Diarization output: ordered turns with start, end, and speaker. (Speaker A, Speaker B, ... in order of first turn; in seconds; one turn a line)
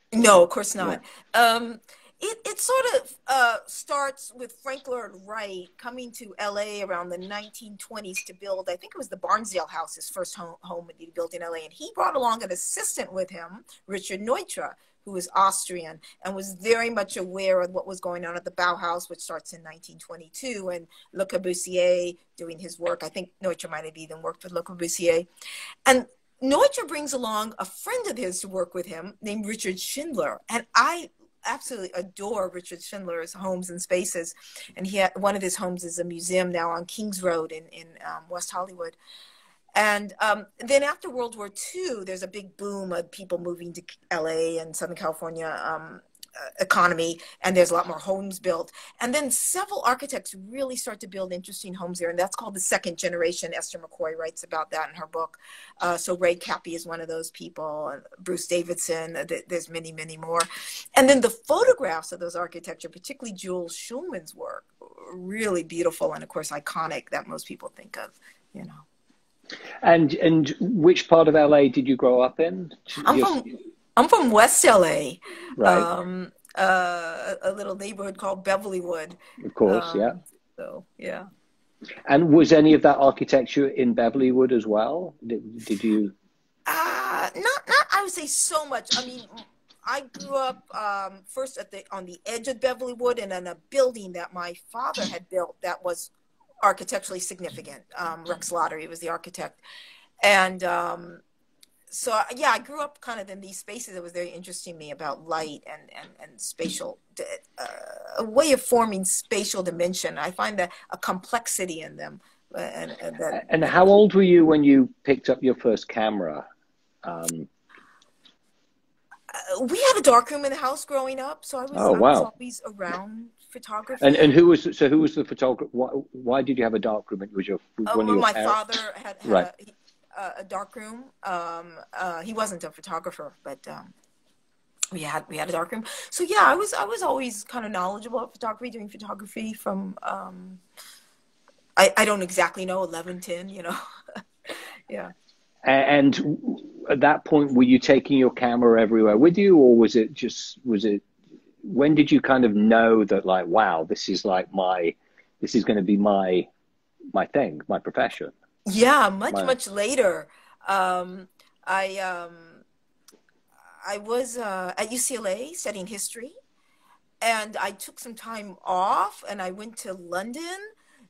Speaker A: 0.1-25.3
Speaker A: 25.9-39.0
Speaker A: 39.7-68.8
Speaker B: 69.8-73.4
Speaker A: 73.0-81.3
Speaker B: 75.6-75.9
Speaker B: 79.4-80.1
Speaker B: 82.0-86.1
Speaker A: 86.7-96.1
Speaker A: 96.6-99.6
Speaker A: 100.2-101.2
Speaker A: 101.9-113.4
Speaker B: 113.3-116.5
Speaker B: 117.0-117.5
Speaker A: 119.3-124.3
Speaker B: 121.7-122.3
Speaker B: 124.0-128.6
Speaker A: 127.9-133.9
Speaker A: 134.9-140.6
Speaker A: 141.8-143.8
Speaker A: 144.5-145.1
Speaker B: 145.6-151.0
Speaker B: 151.6-156.5
Speaker B: 157.1-158.3
Speaker A: 158.7-162.6
Speaker A: 163.8-166.3
Speaker A: 167.2-170.7